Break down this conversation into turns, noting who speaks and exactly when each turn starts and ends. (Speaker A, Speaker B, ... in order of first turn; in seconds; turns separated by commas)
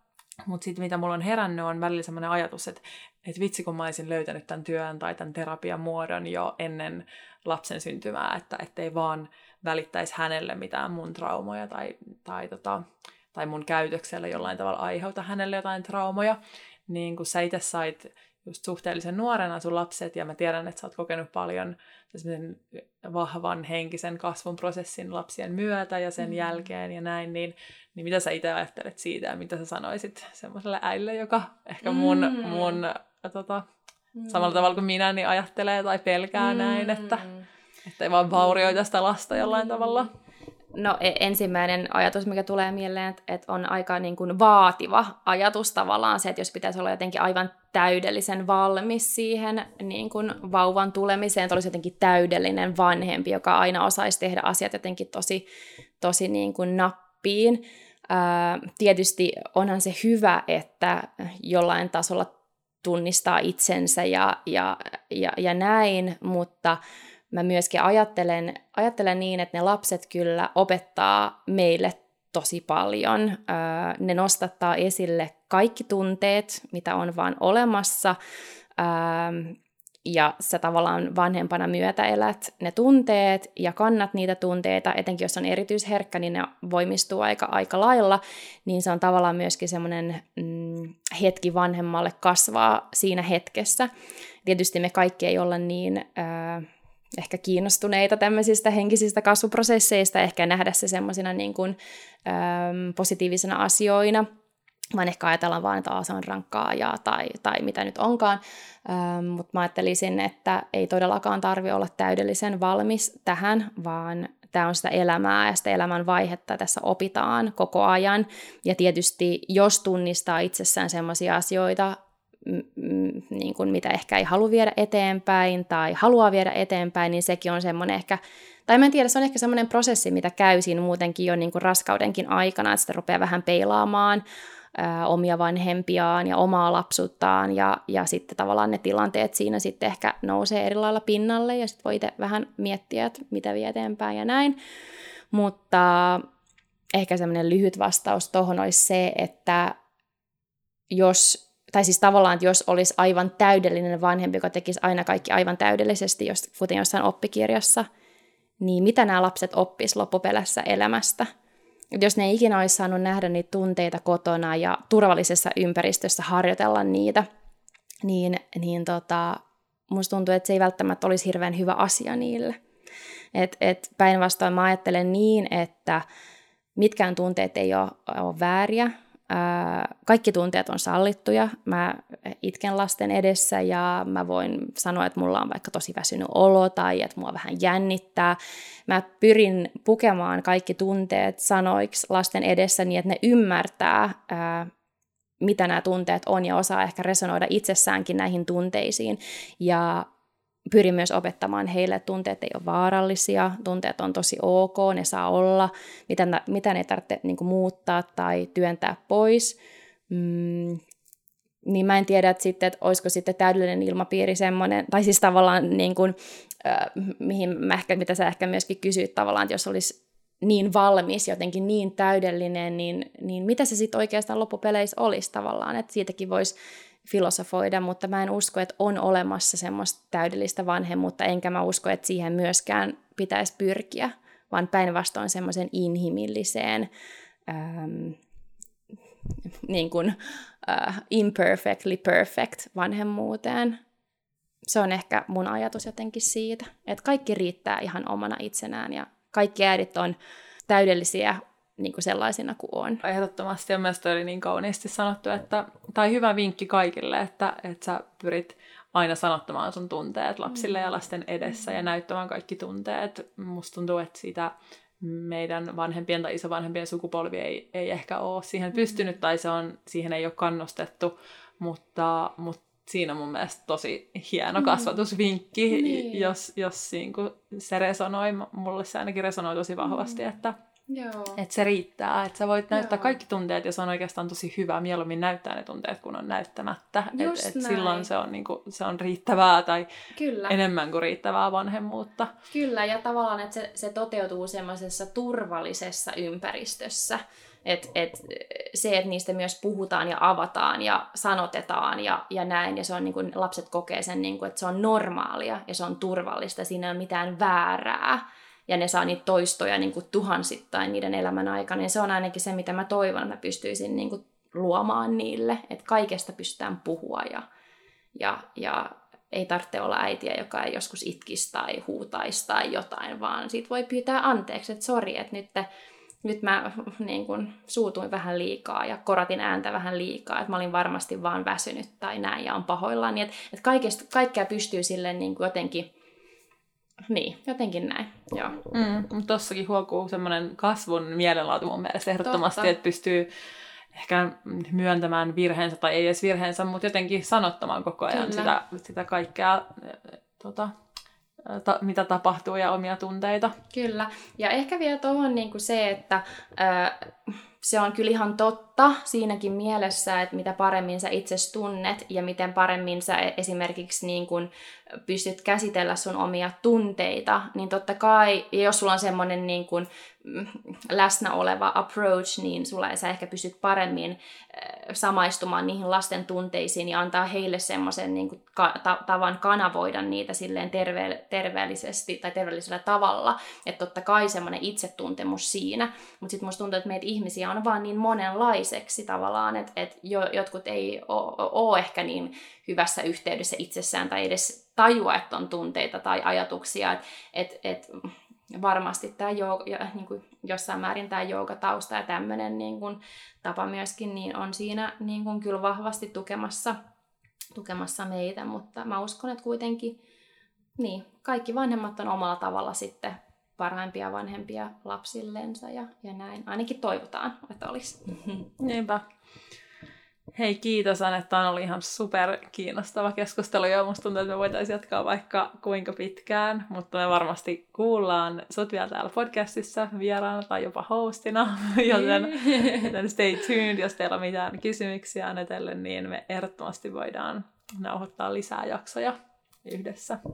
Speaker A: 0.4-12.8, Speaker A: 13.3-33.6, Speaker B: 26.2-26.6, Speaker B: 31.8-32.8, Speaker B: 34.1-34.8, Speaker A: 34.3-37.3, Speaker B: 36.4-37.4, Speaker A: 37.9-40.1, Speaker B: 38.3-38.8, Speaker B: 39.3-40.1, Speaker B: 40.7-55.4, Speaker B: 56.0-62.3, Speaker B: 62.8-66.8, Speaker B: 67.3-78.2, Speaker B: 78.8-93.9, Speaker B: 94.4-104.2, Speaker B: 104.9-134.2, Speaker B: 134.7-144.6, Speaker B: 145.3-146.2, Speaker B: 146.9-149.8, Speaker B: 150.9-157.9, Speaker B: 158.6-161.3, Speaker B: 161.9-167.2, Speaker B: 168.0-172.6, Speaker B: 173.3-176.0, Speaker B: 176.8-194.7, Speaker B: 195.4-200.1, Speaker B: 200.7-209.6, Speaker B: 210.1-210.8, Speaker B: 211.6-236.9, Speaker B: 237.5-238.2, Speaker B: 239.4-243.8, Speaker B: 244.7-250.2, Speaker B: 250.7-253.0, Speaker A: 253.0-280.6, Speaker B: 260.5-260.9, Speaker B: 274.6-274.9, Speaker B: 275.7-276.4, Speaker B: 279.8-280.3, Speaker B: 280.9-281.4, Speaker A: 281.4-289.9, Speaker B: 282.7-283.2, Speaker B: 287.1-288.1, Speaker B: 290.1-290.6, Speaker A: 290.5-292.3, Speaker B: 292.5-317.4, Speaker B: 318.1-325.7, Speaker B: 326.2-335.9, Speaker B: 337.1-338.6, Speaker A: 338.7-343.3, Speaker B: 342.2-342.7, Speaker A: 343.9-350.7, Speaker B: 348.1-348.5, Speaker A: 351.4-353.6, Speaker B: 353.7-364.5, Speaker B: 365.0-406.8, Speaker B: 407.5-410.0, Speaker B: 410.8-418.5, Speaker A: 418.6-419.0, Speaker A: 420.3-440.2, Speaker B: 431.9-432.9